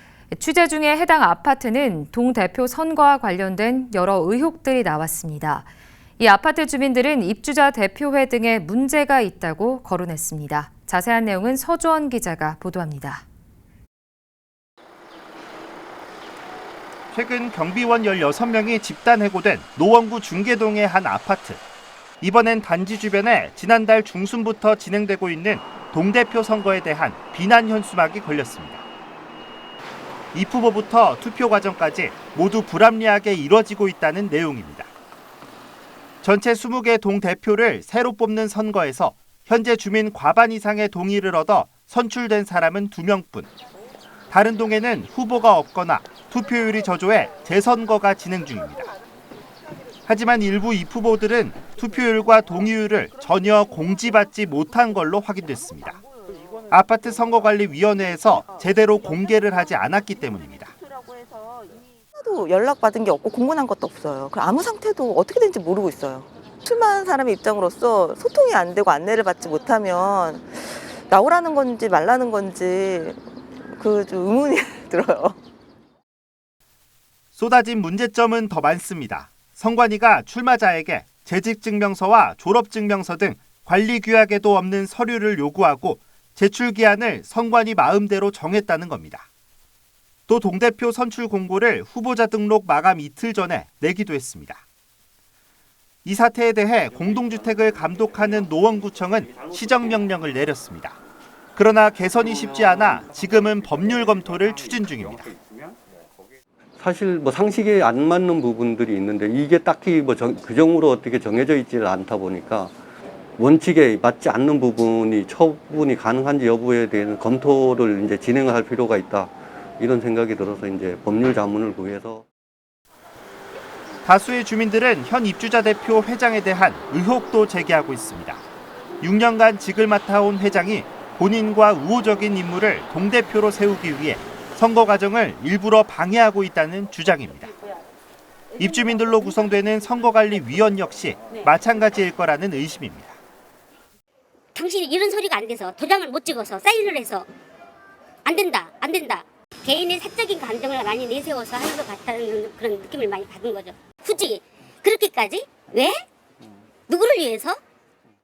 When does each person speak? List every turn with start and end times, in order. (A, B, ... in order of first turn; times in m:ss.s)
0:00.3-0:05.7 A
0:06.2-0:13.2 A
0:17.1-0:21.6 B
0:22.2-0:28.8 B
0:30.3-0:34.9 B
0:36.2-0:43.5 B
0:44.3-0:48.9 B
0:50.1-0:56.0 B
0:56.7-1:00.7 B
1:02.2-1:15.4 C
1:17.3-1:29.3 B
1:30.3-1:34.6 B
1:36.0-1:41.0 B
1:41.6-1:45.3 B
1:46.8-1:52.7 D
1:53.4-2:02.2 D
2:04.0-2:08.4 B
2:09.0-2:17.5 B
2:18.6-2:23.2 B
2:24.5-2:27.2 E
2:28.3-2:35.9 E
2:36.9-2:37.6 E